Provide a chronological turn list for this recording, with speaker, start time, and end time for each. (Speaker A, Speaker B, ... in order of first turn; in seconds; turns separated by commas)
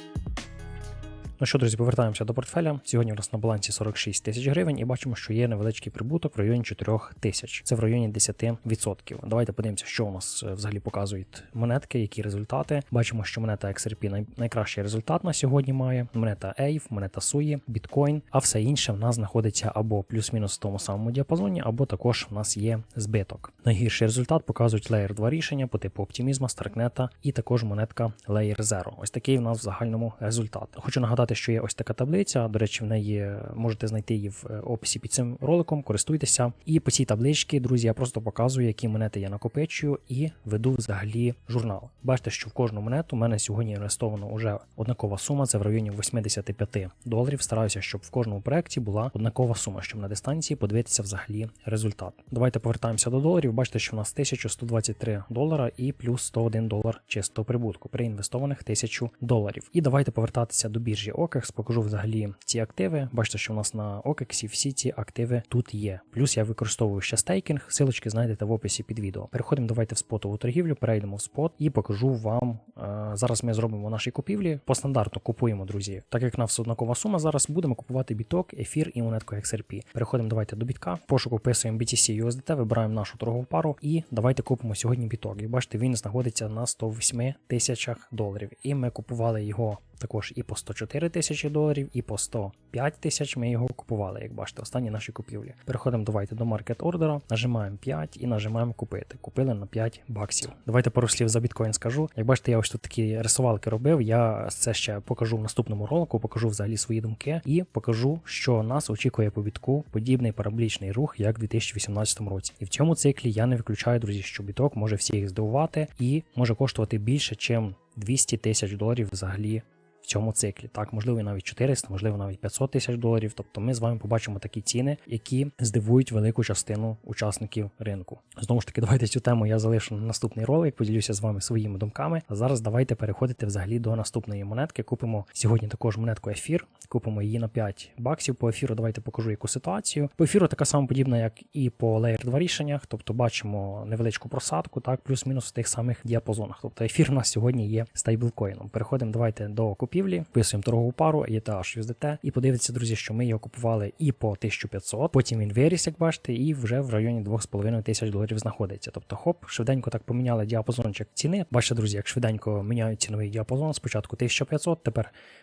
Speaker A: 1.4-165.1